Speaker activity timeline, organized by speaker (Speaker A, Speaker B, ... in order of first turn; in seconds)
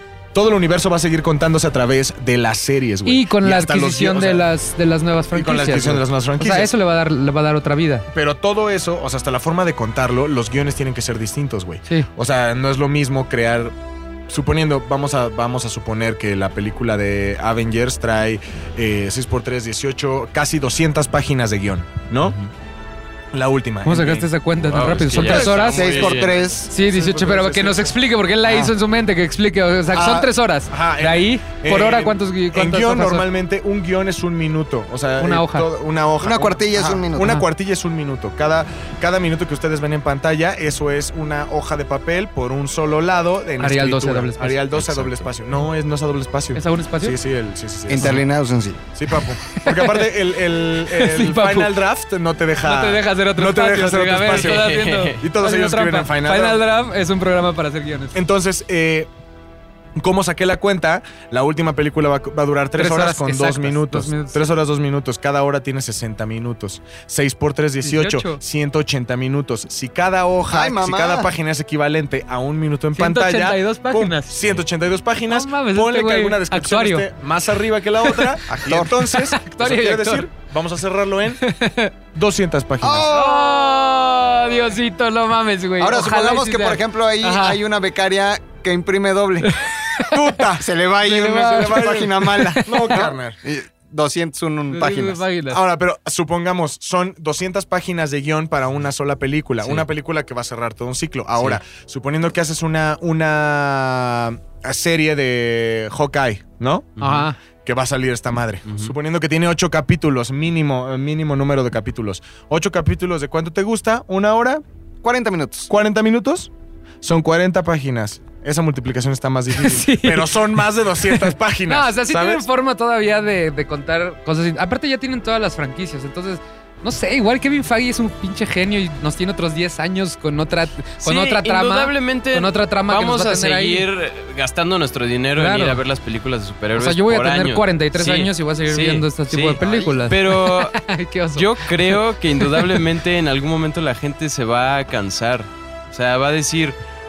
Speaker A: 0.3-4.5, 5.3-6.7, 8.1-13.7, 14.3-22.4, 23.3-24.3, 24.8-28.0, 30.7-48.2, 48.9-56.6, 58.1-59.1, 60.0-81.4, 82.1-83.1, 90.1-93.4, 95.5-106.9, 107.6-114.6, 115.7-116.5, 117.0-122.5
Speaker B: 3.1-8.1, 23.9-25.9, 26.7-33.3, 35.2-35.7, 43.6-44.6, 46.5-47.2, 49.5-50.1, 50.9-51.7, 52.6-58.1, 62.8-64.5, 67.8-68.4, 72.9-74.4, 75.3-77.1, 78.0-78.3, 79.1-80.3, 81.4-81.9, 83.1-87.6, 89.4-90.1, 91.1-93.0, 94.7-95.6, 107.0-107.4, 119.5-133.9, 135.4-135.8, 136.8-142.8
Speaker C: 24.7-26.3, 44.8-45.3, 54.3-55.2, 99.6-99.9, 107.0-107.3, 108.7-108.9, 131.0-140.8, 141.3-146.8
Speaker D: 25.3-26.7, 28.4-28.7, 29.9-30.3, 36.2-37.4, 47.9-48.8, 70.5-71.3, 78.5-78.9, 82.8-83.6, 85.8-89.5, 90.5-95.2, 115.0-115.7